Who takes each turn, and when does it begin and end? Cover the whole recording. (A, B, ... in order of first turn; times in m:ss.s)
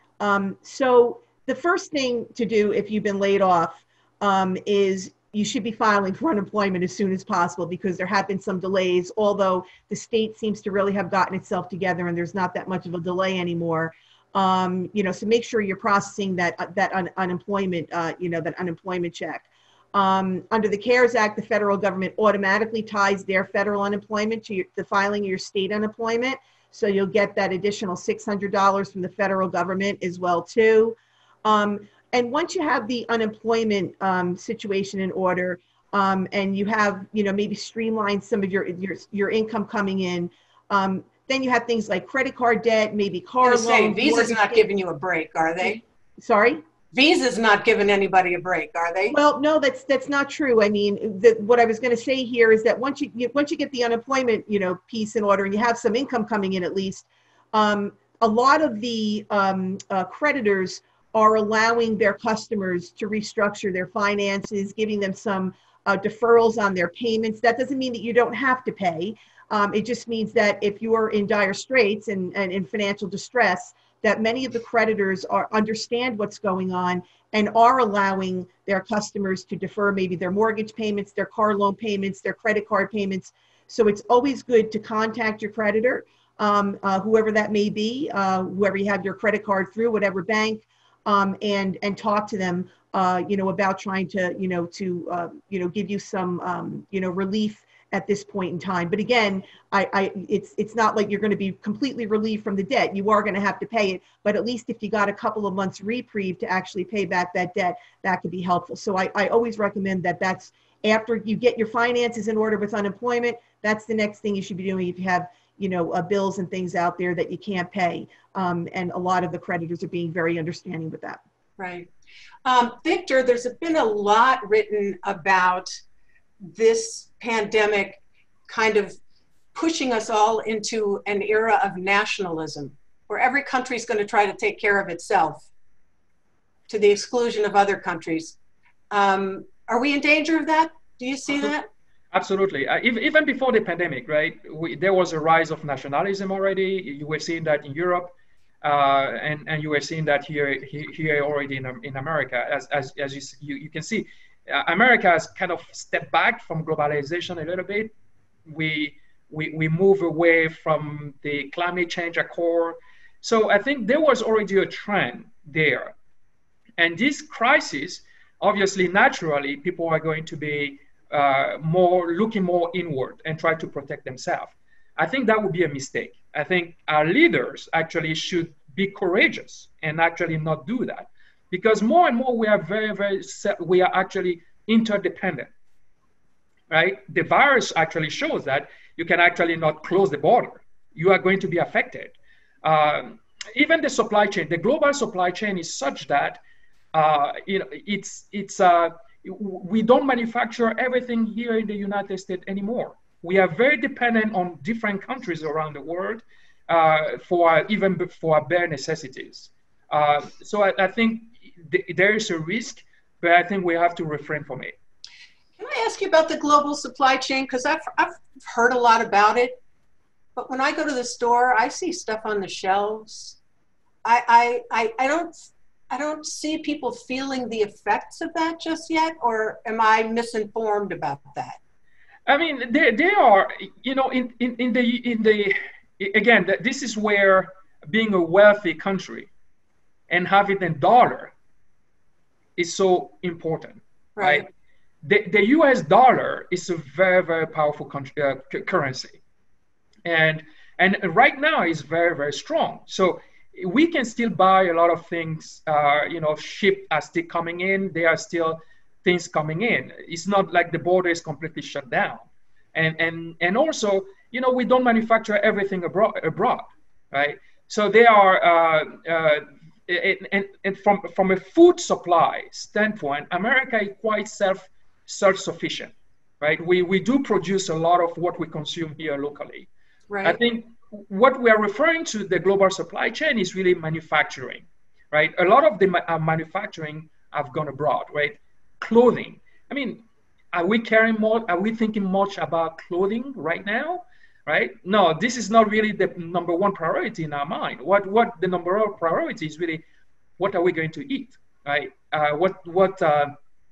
0:00.2-0:44.6 A
0:43.4-0:45.8 B
0:45.6-0:46.6 A
0:46.9-0:49.2 B
0:49.1-2:01.2 A
2:01.6-2:01.9 B
2:02.4-2:05.8 B
2:06.4-2:09.0 B
2:09.5-2:15.5 B
2:16.7-2:18.4 B
2:18.9-2:21.7 B
2:22.1-2:37.9 C
2:38.5-2:45.9 C
2:46.8-3:05.5 C
3:06.7-3:16.4 C
3:16.9-3:34.7 C
3:35.6-3:39.6 B
3:40.4-3:43.4 B
3:44.0-3:51.6 B
3:52.2-3:59.3 C
4:00.1-4:01.3 C
4:02.6-4:04.4 C
4:04.2-4:04.4 B
4:05.0-4:09.2 C
4:10.0-4:39.7 C
4:40.1-4:40.4 B
4:40.2-4:50.0 C
4:50.5-4:59.8 C
5:00.4-5:03.3 C